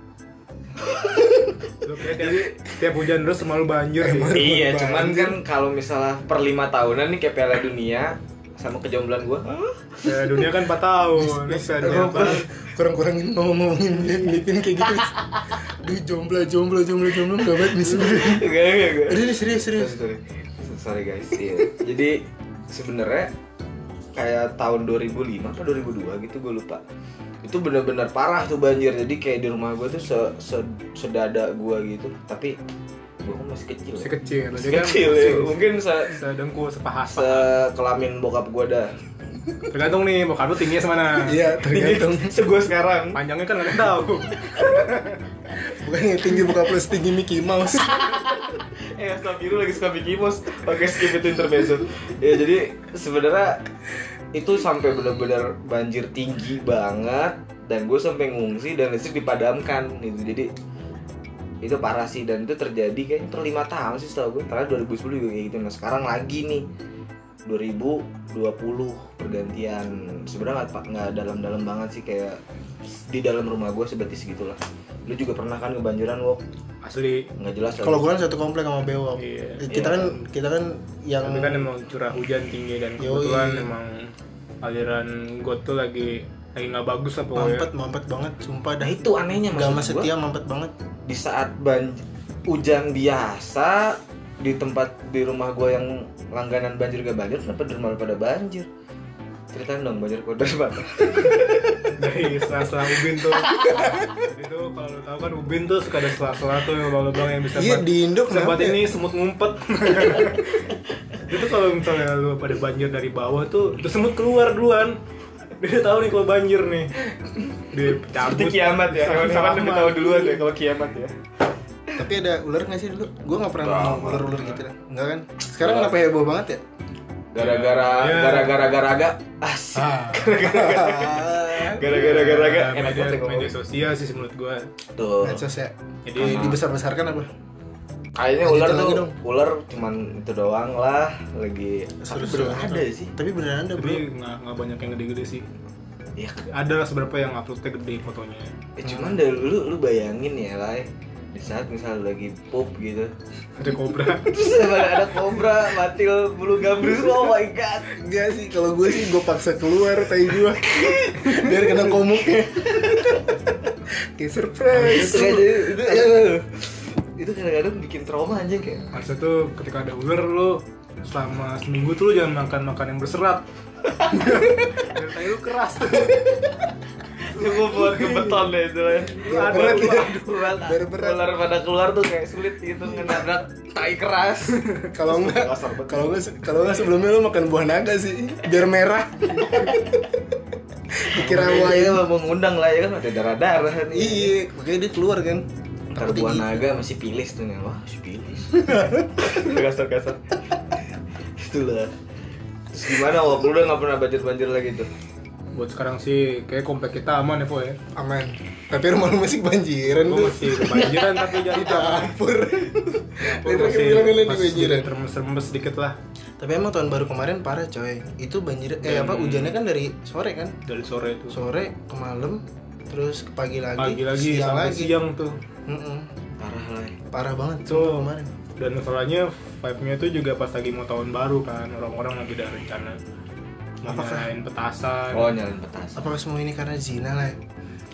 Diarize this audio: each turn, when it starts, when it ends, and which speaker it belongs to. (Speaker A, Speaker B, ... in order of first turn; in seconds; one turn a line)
Speaker A: 0.8-1.5
Speaker B: 1.8-4.5
Speaker A: 2.1-2.6
Speaker C: 4.0-5.4
Speaker A: 4.3-10.1
Speaker B: 10.0-12.4
Speaker C: 11.1-20.0
Speaker A: 11.9-12.7
Speaker A: 17.5-23.3
Speaker A: 24.1-26.8
Speaker A: 27.4-32.6
Speaker A: 33.2-36.2
Speaker B: 34.0-35.6
Speaker B: 36.1-37.5
Speaker A: 37.1-38.9
Speaker B: 39.7-41.5
Speaker C: 41.2-42.4
Speaker A: 41.6-43.2
Speaker B: 43.1-45.2
Speaker C: 45.8-48.3
Speaker A: 48.0-53.6
Speaker A: 54.3-60.5
Speaker A: 61.6-66.7
Speaker A: 67.5-72.4
Speaker A: 73.0-76.4
Speaker B: 76.8-77.3
Speaker A: 77.4-78.1
Speaker C: 77.8-81.7
Speaker B: 79.2-79.7
Speaker A: 79.7-80.1
Speaker B: 81.2-84.1
Speaker C: 83.0-83.7
Speaker B: 84.6-87.7
Speaker C: 87.3-90.7
Speaker A: 88.8-90.1
Speaker A: 91.1-98.7
Speaker A: 99.5-102.0
Speaker B: 102.0-110.7
Speaker C: 103.6-104.1
Speaker C: 107.5-108.9
Speaker B: 111.2-115.0
Speaker B: 115.6-117.0
Speaker B: 117.6-120.5
Speaker A: 118.1-121.1
Speaker C: 122.0-126.6
Speaker A: 123.6-124.4
Speaker A: 125.6-126.0
Speaker A: 127.3-133.5
Speaker B: 127.4-128.8
Speaker B: 129.8-130.5
Speaker C: 130.4-131.6
Speaker B: 131.7-134.7
Speaker A: 134.9-135.4
Speaker C: 135.2-137.3
Speaker B: 136.1-136.6
Speaker A: 136.2-136.6
Speaker A: 138.2-143.1
Speaker C: 138.4-139.2
Speaker C: 142.1-144.0
Speaker B: 143.8-145.4
Speaker A: 146.2-146.5
Speaker B: 146.5-148.5
Speaker A: 148.8-153.1
Speaker C: 148.9-149.2
Speaker B: 153.6-154.4
Speaker A: 154.2-157.9
Speaker C: 157.9-166.3
Speaker A: 160.6-161.5
Speaker A: 162.1-163.3
Speaker A: 164.7-168.9
Speaker B: 168.9-173.4
Speaker B: 173.9-176.3
Speaker A: 177.2-186.2
Speaker B: 177.3-178.5
Speaker B: 179.1-180.2
Speaker C: 179.2-181.3
Speaker C: 184.9-190.1
Speaker C: 190.9-192.1
Speaker A: 191.0-194.3
Speaker C: 193.9-196.7
Speaker A: 195.9-200.3
Speaker C: 198.5-199.1
Speaker A: 201.4-201.9
Speaker A: 202.7-204.9
Speaker B: 205.5-207.8
Speaker C: 207.9-214.9
Speaker B: 209.9-212.2
Speaker B: 213.2-215.9
Speaker C: 216.4-220.6
Speaker B: 218.8-219.6
Speaker B: 220.7-221.4
Speaker C: 221.3-224.9
Speaker B: 223.8-225.4
Speaker C: 225.7-226.1
Speaker A: 226.4-227.0
Speaker C: 227.1-228.3
Speaker B: 227.7-233.0
Speaker B: 233.8-235.3
Speaker C: 233.8-234.3
Speaker A: 235.1-236.1
Speaker C: 235.9-237.4